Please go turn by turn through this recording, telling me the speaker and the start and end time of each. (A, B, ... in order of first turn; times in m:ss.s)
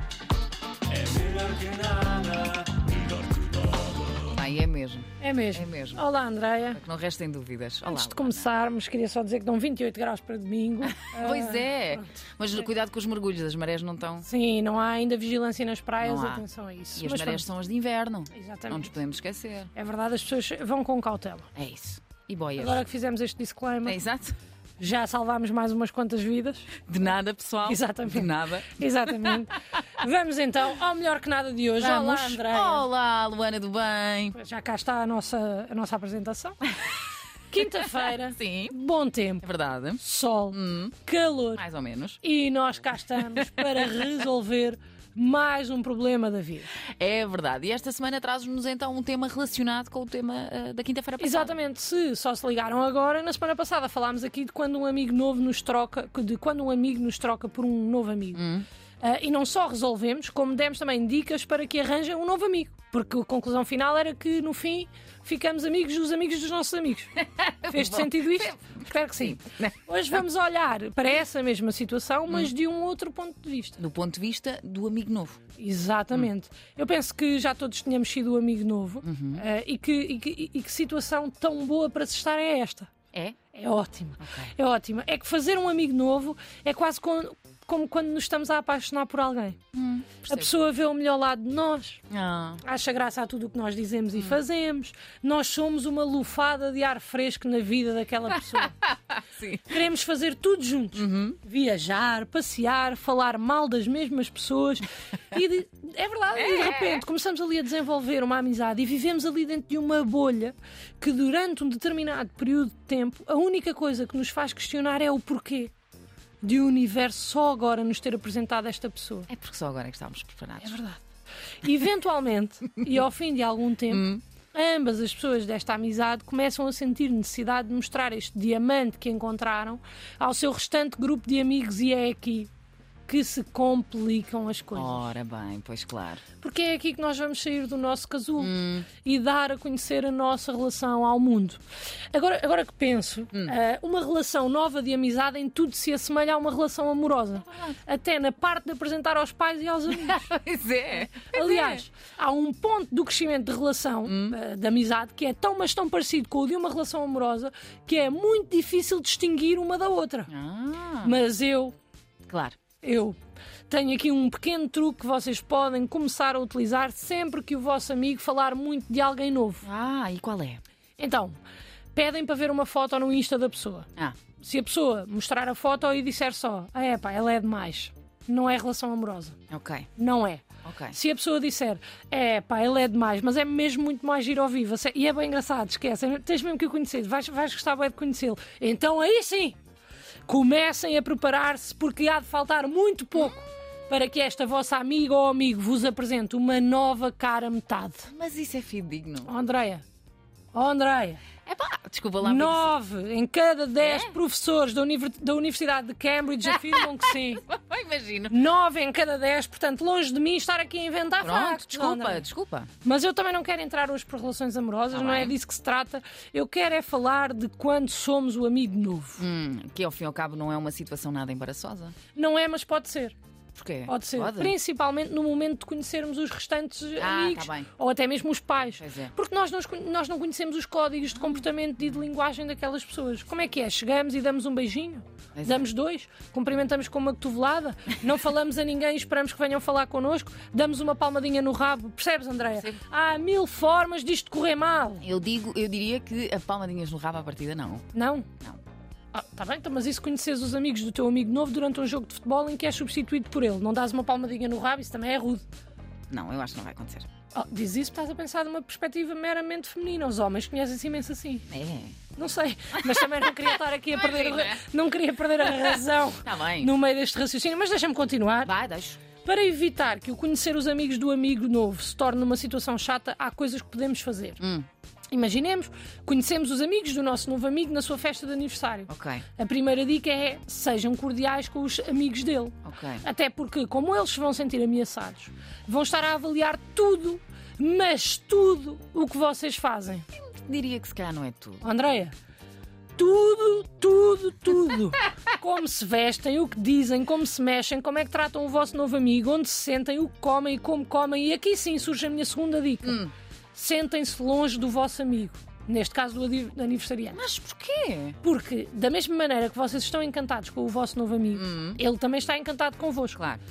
0:00.9-0:03.9 A
0:04.2-0:06.0 B
0:05.2-0:06.8 C
0:06.7-0:08.5 B
0:07.9-0:12.1 C
0:10.8-0:14.3 B
0:14.2-0:17.4 C
0:16.0-0:16.4 B
0:17.0-0:19.7 B
0:18.3-0:18.9 C
0:19.8-0:21.5 C
0:21.6-0:22.8 B
0:22.6-0:24.0 C
0:23.8-0:24.4 B
0:24.8-0:26.8 C
0:26.9-0:29.4 B
0:27.6-0:32.9 C
0:31.8-0:34.4 B
0:34.3-0:36.6 C
0:37.5-0:39.5 C
0:37.8-0:38.8 B
0:39.4-0:41.0 B
0:40.0-0:41.6 C
0:41.6-0:42.2 B
0:42.2-0:46.7 C
0:43.6-0:44.0 B
0:47.0-0:51.5 B
0:51.2-0:58.4 C
0:58.3-0:58.7 B
0:59.0-1:07.1 C
1:07.2-1:09.8 B
1:07.7-1:13.8 C
1:12.3-1:12.5 B
1:13.8-1:15.4 B
1:15.6-1:22.9 C
1:19.0-1:19.4 B
1:23.5-1:29.6 C
1:24.2-1:24.5 B
1:29.7-1:30.5 B
1:30.3-1:32.0 C
1:32.1-1:32.6 B
1:32.6-1:38.7 C
1:34.2-1:34.4 B
1:38.5-1:39.7 B
1:39.6-1:55.7 C
1:41.0-1:41.4 B
1:46.4-1:47.0 B
1:56.4-1:59.3 C
1:59.3-2:00.8 B
2:00.6-2:01.0 C
2:01.6-2:12.5 C
2:03.9-2:04.2 B
2:13.1-2:15.0 C
2:14.7-2:16.2 B
2:16.4-2:21.6 C
2:18.4-2:18.9 B
2:22.1-2:30.2 C
2:29.9-2:31.8 B
2:31.0-2:40.3 C
2:34.0-2:34.4 B
2:40.3-2:41.2 B
2:41.0-2:41.8 C
2:42.3-2:42.6 B
2:42.8-2:43.2 C
2:43.7-2:49.7 C
2:49.6-2:50.6 B
2:51.0-2:51.4 C
2:51.9-2:53.9 C
2:54.4-2:59.4 C
2:59.5-2:59.9 B
3:00.0-3:09.6 C
3:00.6-3:01.0 B
3:10.3-3:18.1 C
3:18.1-3:19.3 B
3:19.2-3:19.8 C
3:20.5-3:21.2 C
3:21.4-3:22.7 B
3:22.2-3:27.4 C
3:23.8-3:24.2 B
3:26.5-3:28.4 B
3:28.3-3:32.2 C
3:31.2-3:32.7 B
3:32.8-3:39.2 C
3:34.9-3:35.4 B
3:39.2-3:42.0 B
3:42.2-3:43.2 C
3:43.6-3:44.5 B
3:43.9-4:05.0 C
3:47.0-3:47.7 B
3:48.8-3:49.1 B
3:51.2-3:51.4 B
3:55.4-3:55.7 B
4:02.6-4:02.8 B
4:05.0-4:07.9 B
4:07.9-4:08.3 C
4:09.1-4:15.4 C
4:16.1-4:17.1 B
4:17.3-4:21.5 C
4:21.5-4:22.0 B
4:22.1-4:28.5 C
4:22.8-4:23.1 B
4:23.9-4:24.6 B
4:25.4-4:26.7 B
4:28.4-4:29.0 B
4:29.2-4:34.4 C
4:34.4-4:34.7 B
4:35.1-4:50.1 C
4:38.9-4:39.2 B
4:42.6-4:43.0 B
4:50.2-4:51.6 B
4:51.6-4:52.1 C
4:53.0-5:03.0 C
5:02.8-5:03.1 B
5:03.6-5:07.2 C
5:07.1-5:08.2 B
5:08.2-5:13.2 C
5:11.3-5:11.8 B